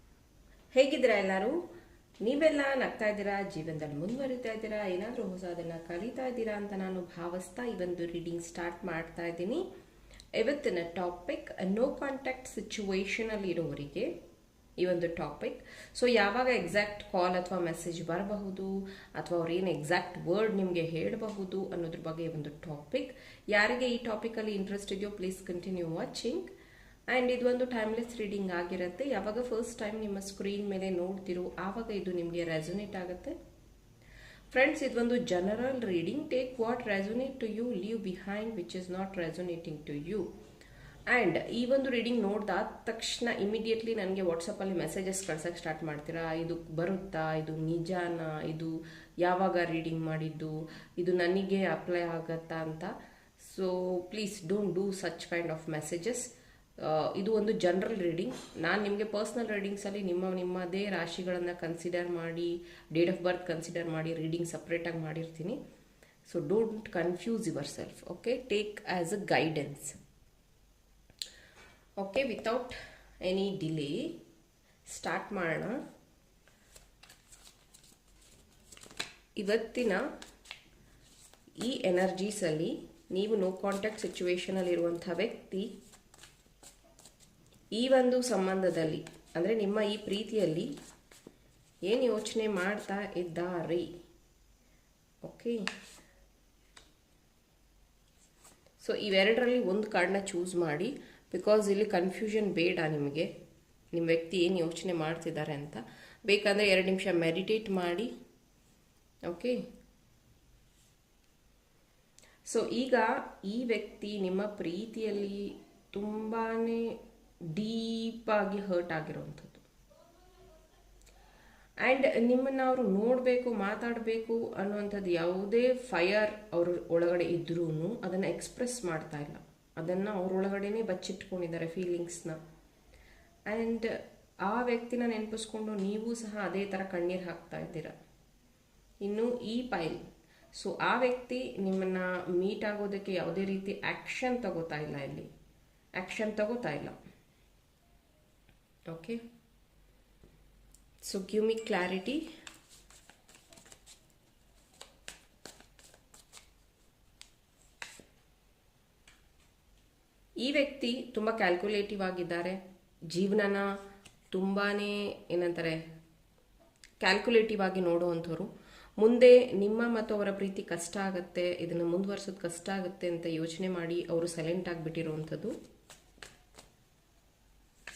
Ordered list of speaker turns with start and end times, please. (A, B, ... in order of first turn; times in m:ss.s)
0:00.7-0:01.6 A
0:02.2-0:09.6 A
0:10.4-0:14.1 A
0:14.8-0:26.5 A
0:27.1-0:33.4 A
0:34.5-0:40.3 A
0:41.1-1:05.6 A
1:06.3-1:10.0 A
1:12.0-1:14.1 A
1:14.8-1:15.8 A
1:19.4-1:20.0 A
1:21.6-1:25.7 A
1:27.7-1:30.7 A
1:31.8-1:33.9 A
1:35.2-1:35.6 A
1:38.8-1:43.3 A
1:43.9-1:48.1 A
1:49.2-1:49.6 A
1:52.4-1:56.9 A
1:57.5-1:59.6 A
2:01.8-2:12.4 A
2:13.5-2:17.9 A
2:19.0-2:20.0 A
2:20.6-2:25.3 A
2:26.0-2:26.9 A
2:28.9-2:29.2 A
2:31.0-2:32.2 A
2:40.4-2:43.7 A
2:44.3-2:45.8 A
2:47.0-2:55.5 A